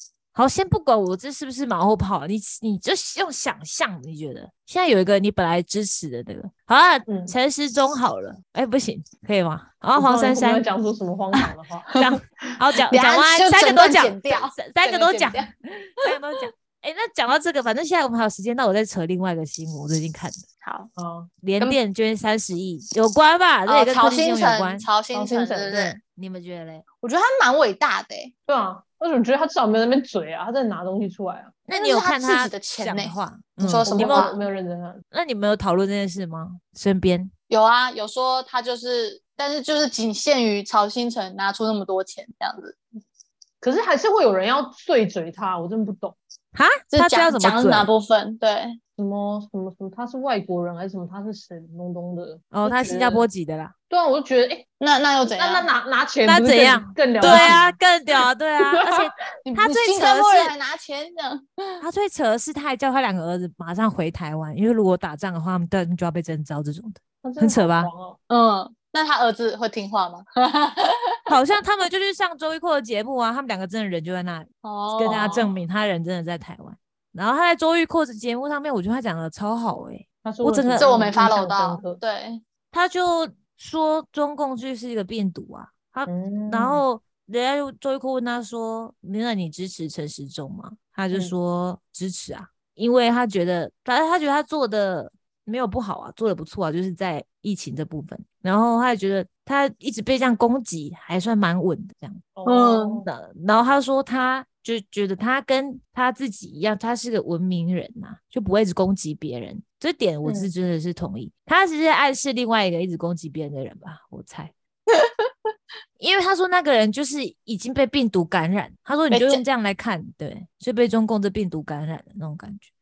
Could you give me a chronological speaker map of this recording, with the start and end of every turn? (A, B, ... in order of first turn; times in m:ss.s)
0:00.4-0:10.6 A
0:07.1-0:07.3 B
0:10.0-0:12.0 B
0:12.0-0:20.4 A
0:12.9-0:15.5 C
0:20.6-0:20.9 C
0:21.0-0:21.3 B
0:21.4-0:24.9 A
0:23.7-0:26.0 C
0:25.1-0:25.8 B
0:25.7-0:26.8 A
0:27.0-0:28.3 C
0:28.5-0:31.6 B
0:31.7-0:34.3 A
0:31.7-0:34.4 C
0:33.9-0:35.0 B
0:35.1-0:37.3 A
0:37.5-0:42.8 C
0:43.6-0:46.2 B
0:46.5-0:47.9 A
0:46.9-0:48.8 C
0:49.0-0:53.3 B
0:52.5-0:53.7 A
0:53.9-0:54.6 B
0:54.8-0:55.7 C
0:55.2-0:57.8 B
0:56.2-1:00.5 A
0:57.2-0:57.6 C
0:58.7-0:59.0 B
0:59.4-1:01.8 C
1:01.8-1:07.9 A
1:07.2-1:08.2 B
1:08.3-1:11.2 C
1:11.3-1:20.9 A
1:14.6-1:15.6 C
1:20.2-1:22.0 B
1:20.8-1:22.4 C
1:22.7-1:42.3 A
1:26.1-1:26.8 B
1:42.4-1:43.1 B
1:42.5-1:43.0 C
1:43.1-1:54.5 A
1:50.2-1:50.5 B
1:56.0-2:02.7 A
1:59.1-1:59.4 C